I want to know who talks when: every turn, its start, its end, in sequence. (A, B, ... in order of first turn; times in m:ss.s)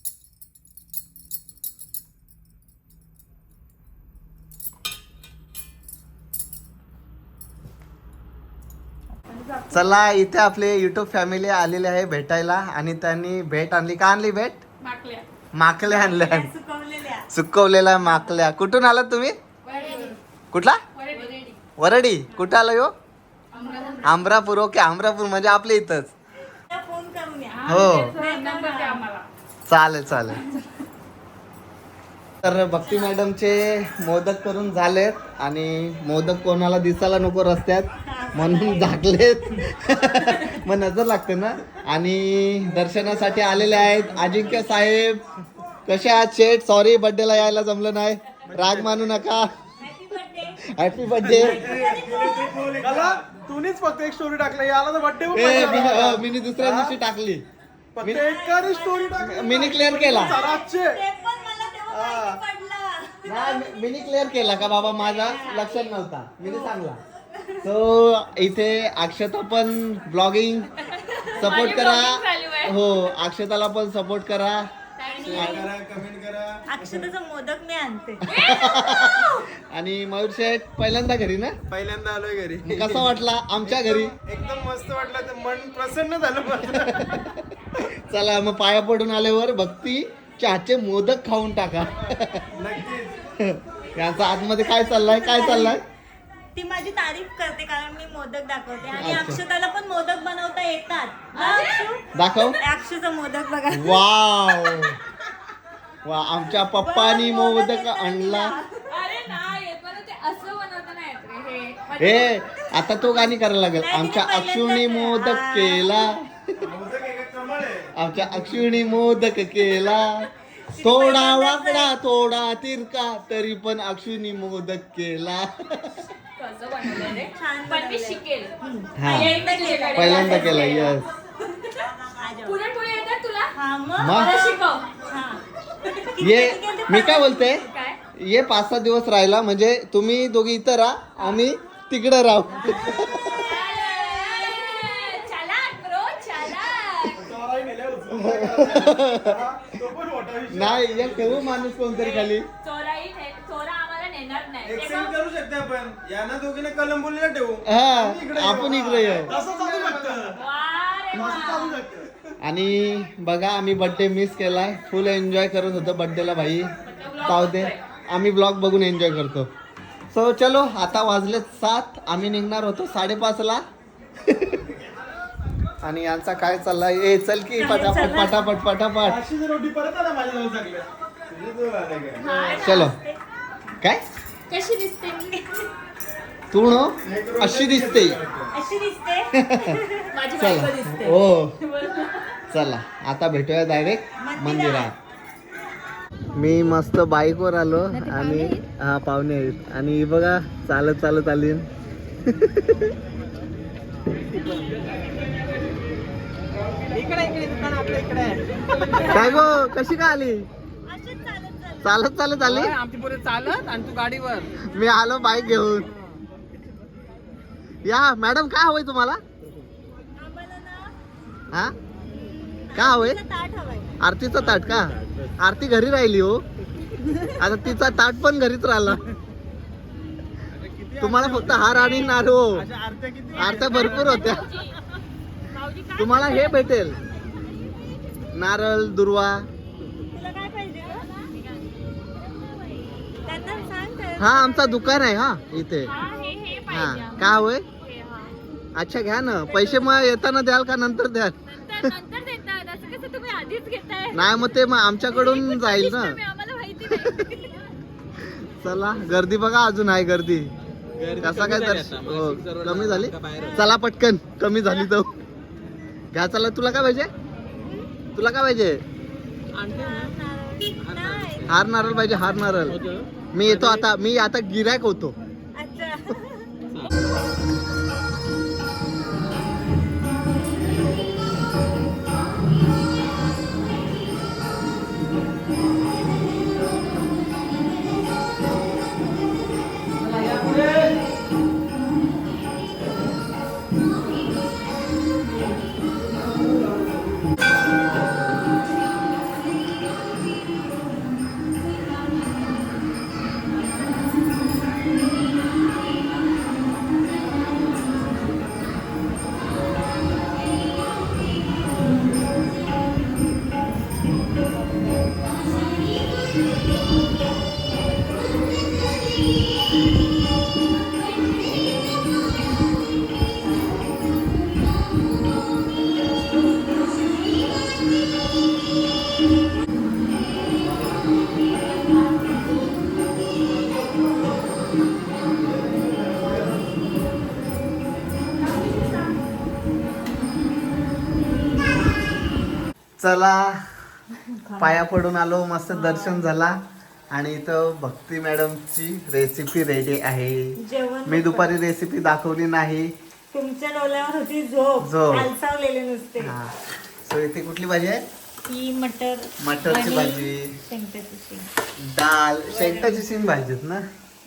0:09.1-0:09.9 A
0:09.7-0:14.6 B
0:14.8-0:15.2 C
0:15.5-0:16.5 B
0:15.8-0:17.3 A
0:17.3-0:19.4 B
0:19.6-0:20.2 C
0:19.8-0:20.1 A
0:20.5-0:20.8 B
0:21.0-0:21.6 C
0:21.8-0:22.9 B
0:23.5-0:24.1 C
0:24.0-0:26.1 B
0:26.7-0:29.1 A
0:27.5-0:29.2 C
0:27.6-0:28.2 B
0:29.7-0:30.4 B
0:30.3-0:30.7 A
0:32.4-0:45.2 B
0:32.8-0:33.2 A
0:38.0-0:40.2 A
0:45.8-0:49.5 B
0:48.6-0:48.9 D
0:49.8-0:50.7 A
0:50.7-0:51.7 B
0:51.3-0:53.1 A
0:51.6-0:56.9 D
0:55.3-0:57.4 B
0:55.3-0:56.2 A
0:58.0-1:01.0 D
0:58.1-1:07.7 A
0:59.2-1:00.4 B
1:03.2-1:07.0 B
1:07.6-1:10.8 B
1:11.1-1:13.0 C
1:11.3-1:14.7 B
1:15.0-1:15.7 C
1:15.1-1:15.8 A
1:15.3-1:15.7 B
1:15.3-1:17.0 D
1:16.7-1:18.3 A
1:18.2-1:21.6 B
1:18.3-1:19.5 C
1:21.7-1:22.8 D
1:22.6-1:24.2 B
1:23.7-1:27.0 D
1:26.6-1:32.5 B
1:32.5-1:33.1 D
1:32.6-1:33.0 A
1:33.3-1:35.8 B
1:34.1-1:35.8 A
1:36.5-1:44.9 A
1:39.0-1:39.4 B
1:41.3-1:42.5 C
1:42.1-1:42.6 B
1:43.7-1:45.0 B
1:46.0-1:48.6 B
1:46.7-1:49.0 A
1:48.9-1:52.4 C
1:52.0-1:56.7 B
1:52.6-1:56.2 A
1:56.6-1:57.9 D
1:57.9-2:00.3 B
1:59.6-2:00.1 A
2:00.7-2:02.0 A
2:00.8-2:06.0 B
2:06.4-2:11.9 C
2:07.3-2:10.9 A
2:09.0-2:11.1 B
2:12.1-2:12.6 A
2:12.4-2:13.6 C
2:13.5-2:15.5 A
2:14.0-2:14.4 B
2:14.1-2:15.0 C
2:15.8-2:16.2 C
2:16.1-2:17.7 A
2:16.2-2:23.4 B
2:17.5-2:18.0 C
2:22.6-2:24.9 A
2:23.0-2:27.2 C
2:27.2-2:31.5 D
2:28.1-2:29.4 B
2:30.5-2:32.5 B
2:31.8-2:35.2 C
2:34.6-2:40.4 D
2:37.6-2:39.3 B
2:39.3-2:40.2 A
2:39.3-2:41.8 C
2:41.1-2:41.7 A
2:41.1-2:42.1 D
2:42.4-2:49.5 B
2:46.8-2:47.8 C
2:50.1-2:53.6 B
2:54.2-2:54.6 B
2:55.8-2:59.2 B
2:57.6-2:58.6 A
2:59.0-3:02.4 D
3:02.2-3:03.2 A
3:02.6-3:03.0 B
3:04.5-3:05.7 C
3:06.5-3:08.2 B
3:07.0-3:08.5 D
3:08.5-3:10.2 A
3:09.3-3:09.8 B
3:10.1-3:12.4 C
3:10.3-3:11.6 B
3:12.5-3:14.9 B
3:14.2-3:14.9 A
3:16.3-3:21.7 B
3:22.2-3:22.9 B
3:26.9-3:28.4 E
3:28.9-3:30.4 B
3:29.0-3:29.2 A
3:30.8-3:32.1 A
3:31.8-3:32.8 B
3:32.5-3:34.5 E
3:34.5-3:35.9 B
3:37.8-3:39.2 B
3:40.1-3:41.0 A
3:42.1-3:44.0 A
3:42.7-3:43.2 B
3:44.0-3:46.4 B
3:47.3-3:49.0 B
3:50.6-3:51.4 E
3:51.0-3:52.7 B
3:51.6-3:52.2 A
3:52.6-3:53.9 E
3:53.3-3:54.4 B
3:53.5-3:54.8 C
3:53.8-3:54.3 A
3:55.5-3:56.7 C
3:56.0-3:57.0 B
3:58.3-3:59.5 B
4:00.1-4:01.1 A
4:03.2-4:05.0 A
4:04.2-4:05.9 B
4:05.8-4:08.4 C
4:06.0-4:07.3 A
4:06.7-4:07.6 B
4:08.7-4:11.9 B
4:09.5-4:09.9 C
4:11.5-4:14.3 C
4:14.1-4:16.2 B
4:15.1-4:17.6 C
4:16.8-4:17.2 B
4:18.2-4:20.5 B
4:21.0-4:23.6 E
4:21.0-4:21.4 A
4:21.2-4:25.1 B
4:23.4-4:23.7 A
4:26.1-4:27.1 B
4:27.6-4:27.9 A
4:28.1-4:28.8 B
4:29.6-4:30.1 E
4:29.6-4:32.1 A
4:30.8-4:31.4 E
4:31.4-4:35.2 B
4:32.9-4:33.8 E
4:35.6-4:36.6 A
5:43.0-5:43.6 B
5:44.1-5:44.8 A
5:44.6-5:46.6 B
5:45.7-5:46.3 A
5:47.1-5:50.5 B
5:50.6-5:51.5 A
5:51.0-5:52.9 B
5:53.3-5:56.4 A
5:54.8-5:55.3 B
5:56.2-5:58.0 B
5:58.4-6:01.5 A
5:59.4-6:00.6 B
6:01.8-6:03.8 B
6:02.5-6:03.1 A